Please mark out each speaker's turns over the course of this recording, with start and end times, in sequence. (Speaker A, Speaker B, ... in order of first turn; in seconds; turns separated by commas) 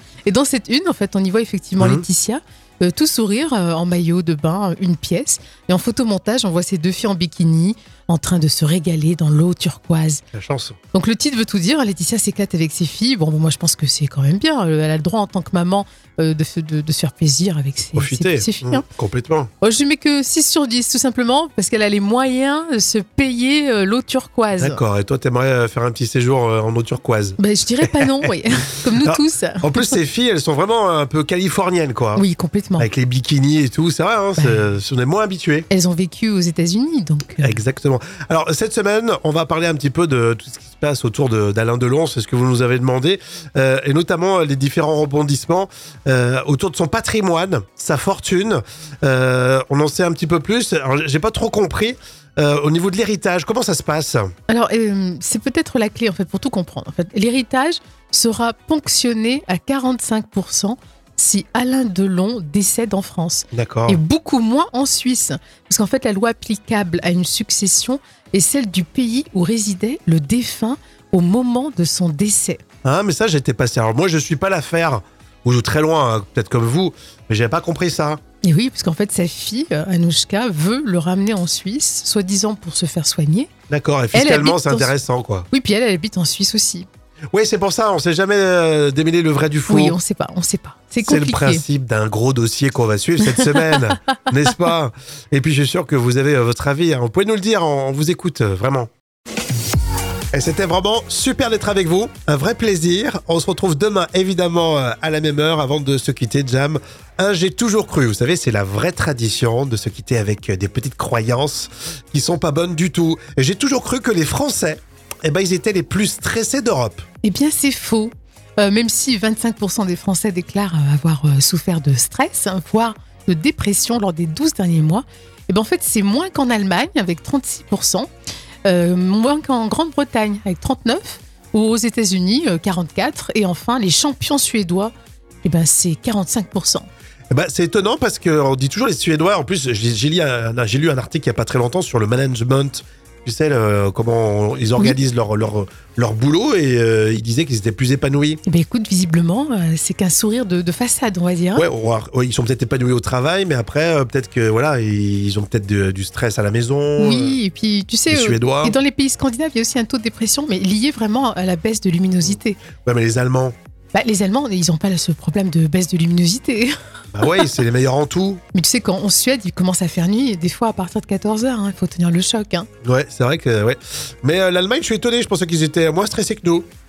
Speaker A: 0.2-10.2, Speaker B: 1.8-2.0, Speaker B: 10.3-10.8, Speaker A: 10.9-18.8, Speaker B: 17.9-19.5, Speaker A: 19.6-24.8, Speaker B: 24.5-28.3, Speaker A: 27.4-29.9, Speaker B: 28.9-32.2, Speaker A: 32.1-32.9, Speaker B: 32.8-35.7, Speaker A: 35.7-37.5, Speaker B: 37.4-54.3, Speaker A: 54.5-72.6, Speaker B: 63.5-64.0, Speaker B: 72.8-78.2, Speaker A: 78.4-83.5, Speaker B: 83.7-85.5, Speaker A: 84.1-84.9, Speaker A: 85.5-86.9, Speaker B: 87.3-90.0, Speaker A: 89.7-91.6, Speaker B: 91.0-98.9, Speaker A: 93.2-94.0, Speaker B: 100.3-117.0, Speaker A: 117.2-128.1, Speaker A: 128.7-134.9, Speaker A: 135.4-136.9, Speaker B: 137.3-148.4, Speaker A: 148.4-151.6, Speaker B: 151.6-157.4, Speaker A: 157.0-162.6, Speaker B: 158.1-158.8, Speaker B: 162.8-163.5, Speaker A: 163.9-166.7, Speaker B: 167.1-168.4, Speaker A: 168.5-172.7, Speaker B: 172.8-176.7